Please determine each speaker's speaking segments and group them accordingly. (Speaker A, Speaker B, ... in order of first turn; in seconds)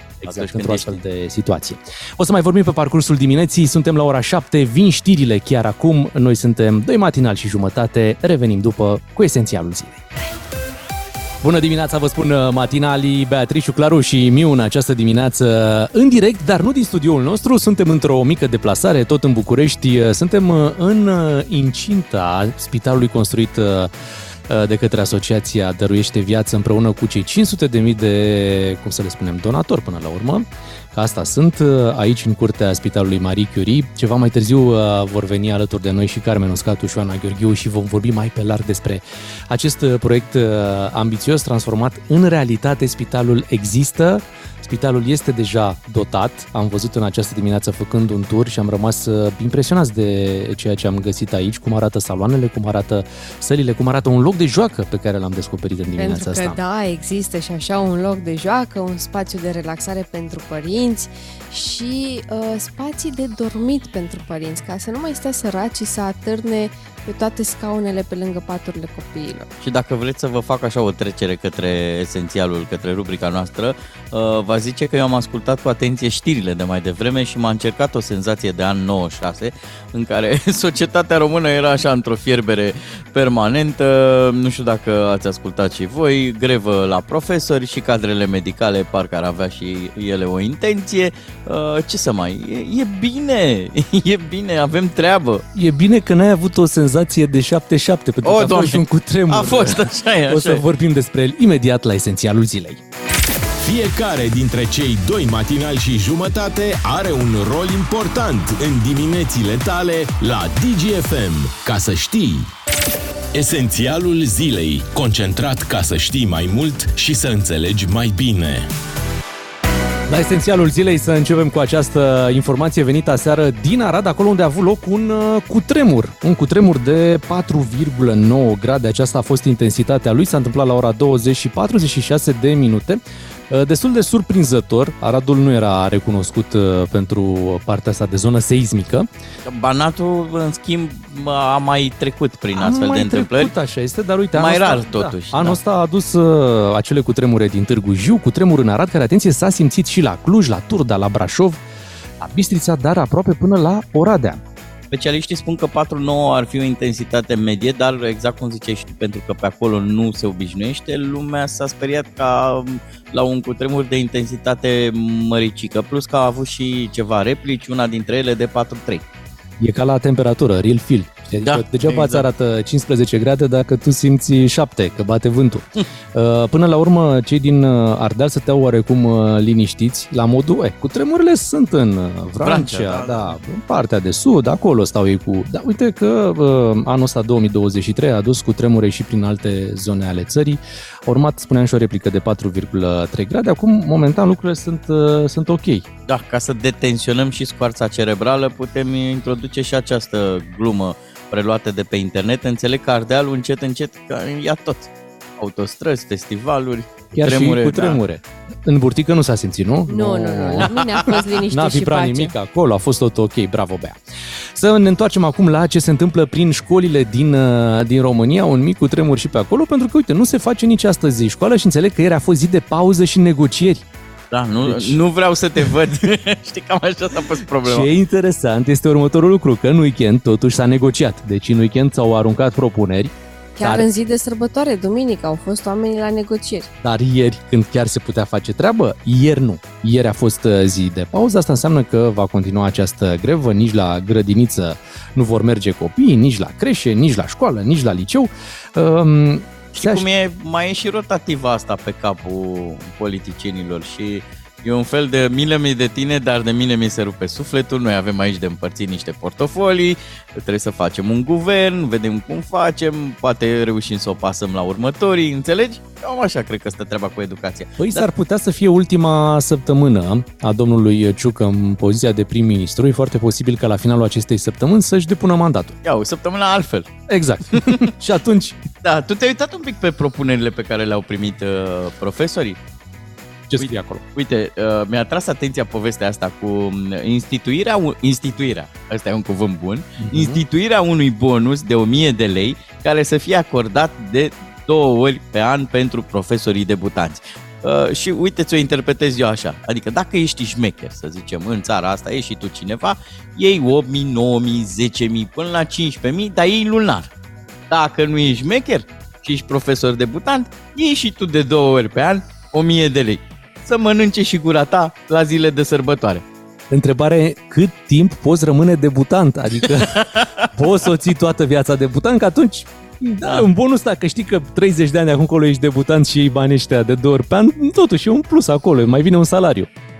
Speaker A: 0.2-1.0, 69.6-95.4, 98.2-100.6, 139.4-143.5, 144.3-145.6, 154.9-169.0, 171.4-172.2, 182.4-183.3, 196.1-208.0, 210.7-211.2, 224.3-227.9, 249.7-268.1, 275.8-276.9, 278.8-282.6, 283.6-307.1, 307.7-316.2, 319.9-320.5
Speaker B: 0.2-10.1, 11.4-23.9, 24.5-56.6, 95.5-102.8, 120.1-139.1, 142.5-151.6, 152.2-154.4, 169.6-195.8, 207.1-210.7, 211.5-214.0, 214.5-223.8, 224.6-225.0, 227.6-233.8, 236.8-250.1, 267.8-275.8, 277.1-278.6, 283.5-284.0, 290.0-290.4, 316.7-320.0, 320.5-329.7
Speaker C: 56.0-69.5, 209.9-212.3, 233.6-236.7
Speaker D: 103.6-112.5, 113.3-118.7